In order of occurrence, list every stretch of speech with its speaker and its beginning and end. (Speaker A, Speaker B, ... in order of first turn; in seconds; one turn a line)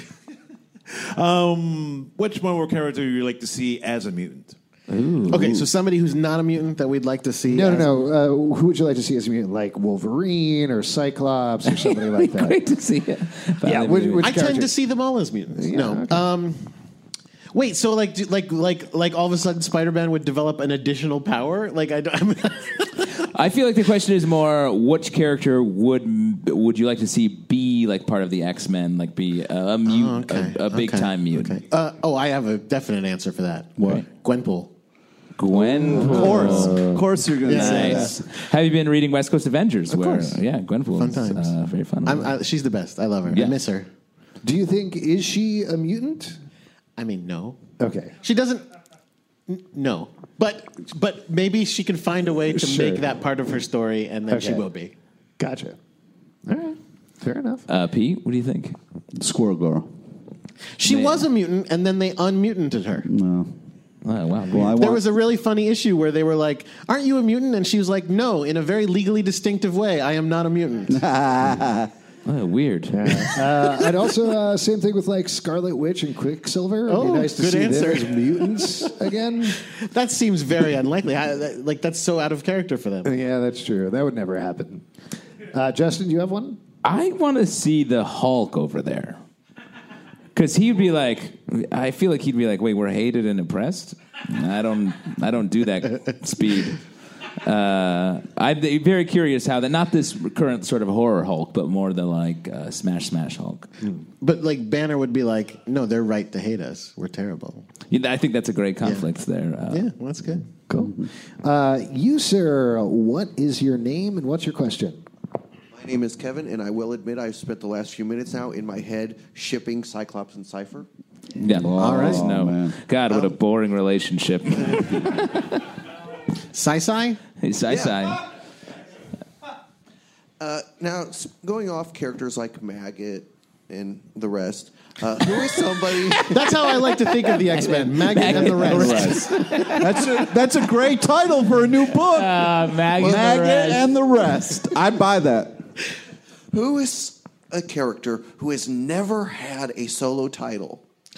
Speaker A: 0.9-4.5
Speaker B: 4.9-5.6
Speaker C: 5.3-7.9
Speaker D: 7.5-12.6
Speaker B: 11.7-14.3
Speaker D: 13.6-14.7
Speaker C: 14.2-16.7
Speaker D: 15.5-16.2
Speaker C: 17.5-23.1
Speaker B: 23.3-31.6
Speaker C: 29.9-34.7
Speaker E: 33.8-34.0
Speaker B: 35.4-36.9
Speaker E: 35.5-38.1
Speaker C: 35.9-36.8
Speaker C: 37.5-38.1
Speaker B: 37.5-42.4
Speaker C: 39.9-40.4
Speaker C: 40.9-41.5
Speaker C: 42.0-43.9
Speaker B: 43.3-43.5
Speaker D: 44.4-46.4
Speaker C: 47.0-47.6
Speaker D: 47.8-48.2
Speaker C: 48.2-48.6
Speaker C: 49.5-54.9
Speaker D: 52.5-53.0
Speaker D: 54.3-54.6
Speaker D: 55.4-55.8
Speaker D: 56.5-57.6
Speaker B: 57.7-58.8
Speaker E: 59.2-59.9
Speaker C: 60.8-63.1
Speaker B: 60.8-61.2
Speaker E: 63.0-63.5
Speaker B: 64.0-64.7
Speaker E: 64.5-65.0
Speaker C: 64.5-71.0
Speaker E: 70.9-71.9
Speaker B: 72.2-73.4
Speaker D: 72.9-79.6
Speaker C: 76.9-78.4
Speaker C: 79.7-83.1
Speaker D: 83.0-84.8
Speaker D: 85.5-86.6
Speaker B: 86.8-89.2
Speaker B: 90.3-96.8
Speaker B: 97.4-103.7
Speaker C: 103.8-107.6
Speaker B: 107.9-109.9
Speaker C: 109.7-110.4
Speaker D: 110.7-115.0
Speaker F: 115.7-120.8
Speaker B: 121.4-125.6
Speaker E: 121.4-122.8
Speaker C: 121.8-122.3
Speaker C: 126.5-127.2
Speaker B: 127.4-128.2
Speaker F: 130.4-136.3
Speaker B: 136.2-140.2
Speaker C: 136.2-139.6
Speaker E: 138.4-145.5
Speaker B: 142.0-143.9
Speaker F: 146.5-150.8